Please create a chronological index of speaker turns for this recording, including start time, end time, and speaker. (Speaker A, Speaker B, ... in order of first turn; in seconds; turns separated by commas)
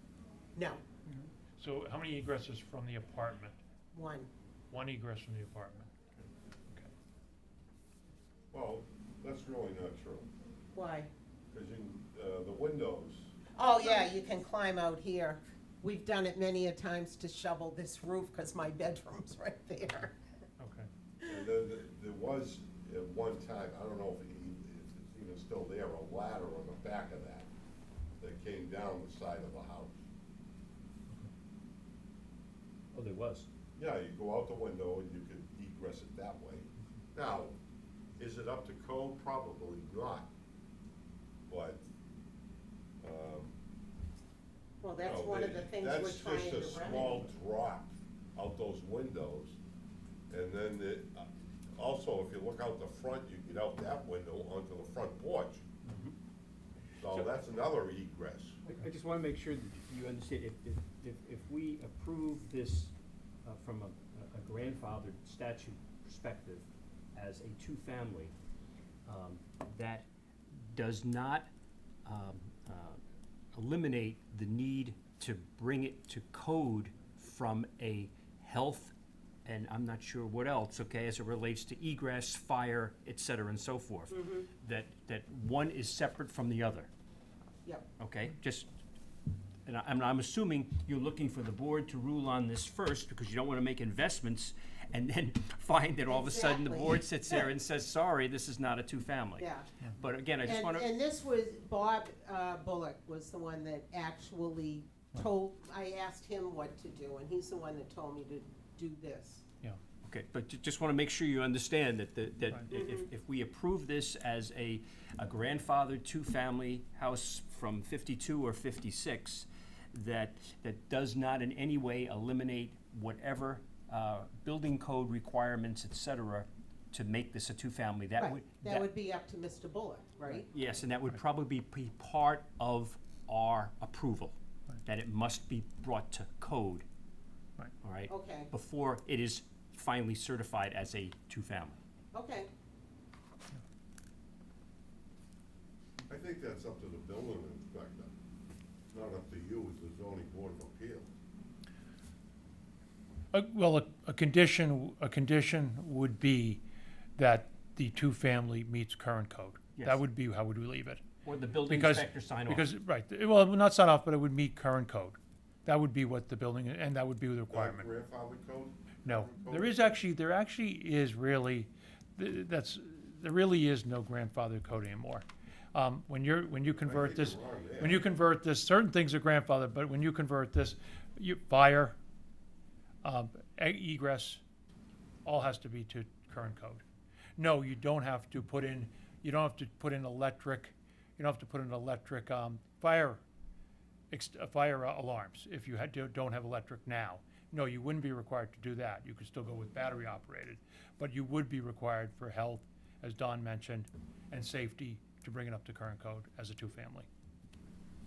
Speaker A: 0.6-0.8, Speaker B: 1.1-3.6, Speaker A: 3.9-4.3, Speaker B: 4.7-6.0, Speaker C: 8.5-10.3, Speaker A: 10.7-11.1, Speaker C: 11.5-13.3, Speaker A: 13.6-20.2, Speaker B: 20.6-20.9, Speaker C: 21.3-27.5, Speaker C: 28.2-30.0, Speaker D: 32.9-33.5, Speaker C: 33.8-37.6, Speaker C: 38.2-40.3, Speaker C: 41.5-41.9, Speaker C: 43.0-43.5, Speaker A: 44.8-47.3, Speaker C: 45.0-49.6, Speaker C: 50.3-55.6, Speaker D: 55.9-56.1, Speaker C: 57.0-58.6, Speaker D: 57.1-57.3, Speaker D: 58.6-62.9, Speaker D: 63.4-68.3, Speaker D: 69.1-71.5, Speaker D: 72.0-73.0, Speaker D: 73.5-78.9, Speaker D: 79.5-86.9, Speaker A: 84.1-84.5, Speaker D: 88.0-88.7, Speaker D: 89.7-100.9, Speaker A: 96.1-97.0, Speaker A: 99.4-99.7, Speaker A: 100.4-109.4, Speaker D: 110.0-128.9, Speaker A: 112.7-113.1, Speaker A: 128.2-130.5, Speaker D: 130.3-136.9, Speaker D: 137.8-141.8, Speaker A: 138.1-138.5, Speaker A: 142.1-142.5, Speaker C: 146.1-148.1, Speaker C: 148.9-151.1, Speaker B: 153.3-156.6, Speaker B: 157.2-161.0, Speaker D: 159.8-160.0, Speaker D: 161.2-162.7, Speaker B: 161.7-167.9, Speaker C: 167.5-169.7, Speaker B: 169.1-182.0, Speaker C: 176.8-178.1, Speaker B: 183.0-184.4, Speaker B: 185.2-186.8, Speaker B: 187.4-193.2, Speaker B: 194.1-207.1